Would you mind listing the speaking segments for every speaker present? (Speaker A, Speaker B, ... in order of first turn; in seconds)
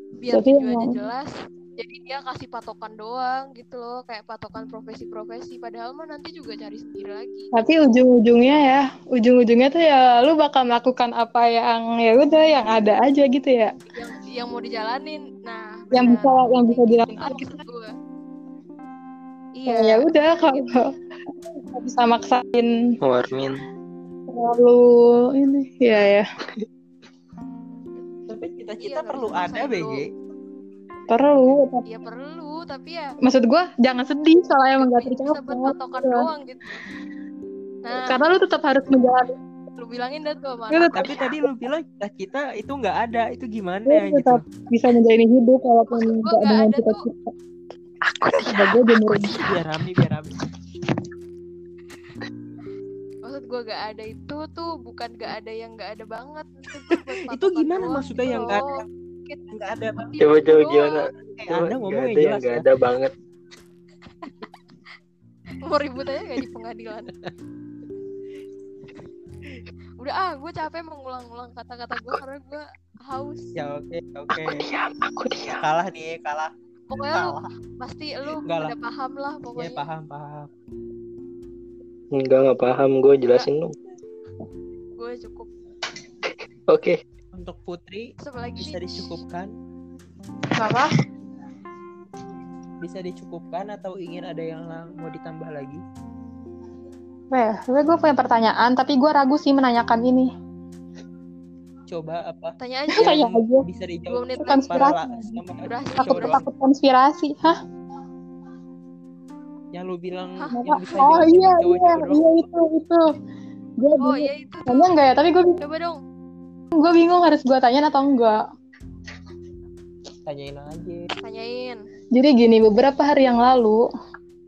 Speaker A: 0.2-7.5, 13.9-17.9, 19.6-20.8, 28.8-30.0, 31.9-33.1, 34.8-36.8, 37.8-38.2, 39.8-41.2, 45.9-47.0, 53.2-58.7, 60.0-61.1, 65.6-67.1, 70.0-73.5, 76.9-79.8, 85.0-85.5, 88.2-89.2, 102.6-103.3, 104.1-104.9, 105.6-106.5, 114.0-115.0, 115.6-116.0, 121.2-121.8
Speaker B: 0.3-1.0, 7.5-13.7, 15.9-17.6, 19.7-23.0, 24.3-26.3, 31.1-31.8, 33.2-36.3, 37.9-39.3, 40.7-41.3, 43.9-47.3, 48.5-49.4, 90.5-90.9, 97.3-100.3, 102.9-103.7, 104.4-105.4, 106.0-107.6, 110.5-113.1, 113.8-115.6, 116.7-118.4, 122.1-123.9
Speaker C: 23.0-23.6, 48.0-49.4, 60.2-63.1, 74.3-75.6, 82.1-83.8, 86.7-87.0
Speaker D: 28.3-30.1, 40.9-44.5, 49.3-50.4, 56.9-58.9, 59.5-60.2, 61.4-62.7, 73.6-74.7, 75.6-77.5, 78.5-78.8, 79.6-80.5, 87.3-89.5, 92.8-95.8, 101.9-106.5, 109.7-112.3, 120.3-121.1